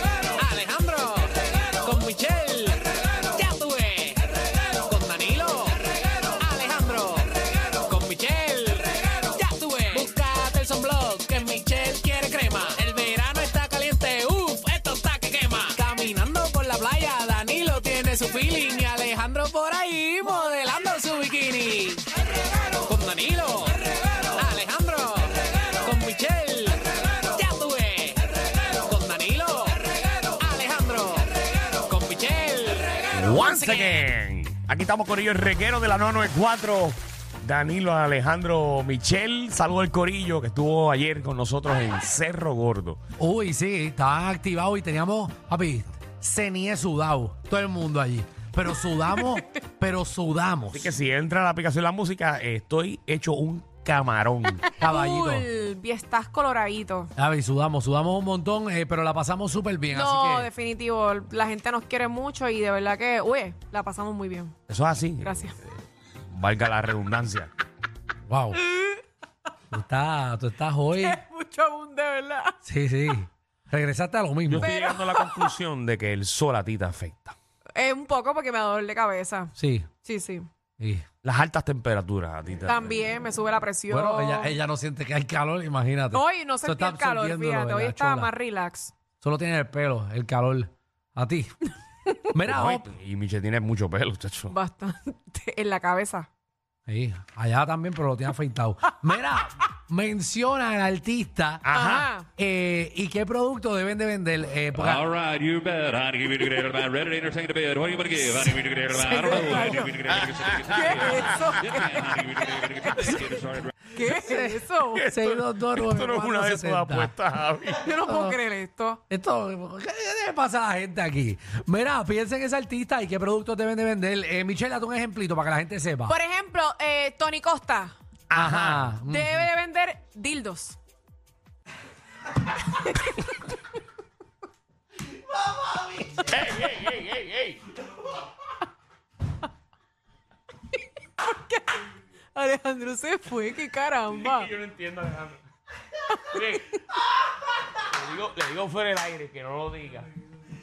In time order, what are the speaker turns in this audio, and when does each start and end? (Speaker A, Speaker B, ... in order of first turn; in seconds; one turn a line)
Speaker A: 0.4-22.1
Speaker A: 22.8-34.1
Speaker B: 33.1-43.0
Speaker C: 43.2-50.9
Speaker B: 50.7-54.7
Speaker C: 54.8-55.5
Speaker D: 54.8-57.1
Speaker C: 57.2-60.5
Speaker D: 59.9-64.5
Speaker B: 64.7-65.7
Speaker D: 65.2-65.5
Speaker B: 66.3-67.5
Speaker C: 68.3-68.6
Speaker D: 68.6-69.0
Speaker C: 69.7-71.2
Speaker D: 71.0-72.6
Speaker C: 72.6-74.9
Speaker B: 74.5-77.3
Speaker D: 74.6-75.5
Speaker D: 77.7-80.5
Speaker C: 79.5-79.9
Speaker C: 80.8-81.0
Speaker B: 81.2-83.1
Speaker D: 82.6-84.6
Speaker C: 83.9-88.3
Speaker D: 86.1-88.9
Speaker C: 89.2-91.5
Speaker C: 92.3-92.9
Speaker B: 92.5-94.5
Speaker D: 94.5-96.3
Speaker C: 96.9-101.7
Speaker B: 101.6-102.1
Speaker D: 101.7-102.3
Speaker C: 102.4-105.1
Speaker E: 104.7-113.7
Speaker D: 108.5-113.3
Speaker B: 110.0-111.6
Speaker D: 113.9-115.0
Speaker C: 114.0-117.1
Speaker B: 114.9-118.0
Speaker D: 117.8-119.0
Speaker C: 118.0-118.4
Speaker C: 119.1-126.2
Speaker D: 126.1-128.0
Speaker B: 128.3-128.9
Speaker C: 128.3-129.5
Speaker D: 129.0-130.8
Speaker D: 132.8-133.1
Speaker B: 136.1-137.6
Speaker D: 141.2-141.8
Speaker D: 142.3-144.5
Speaker B: 144.1-145.4
Speaker B: 146.3-146.7
Speaker B: 147.8-150.1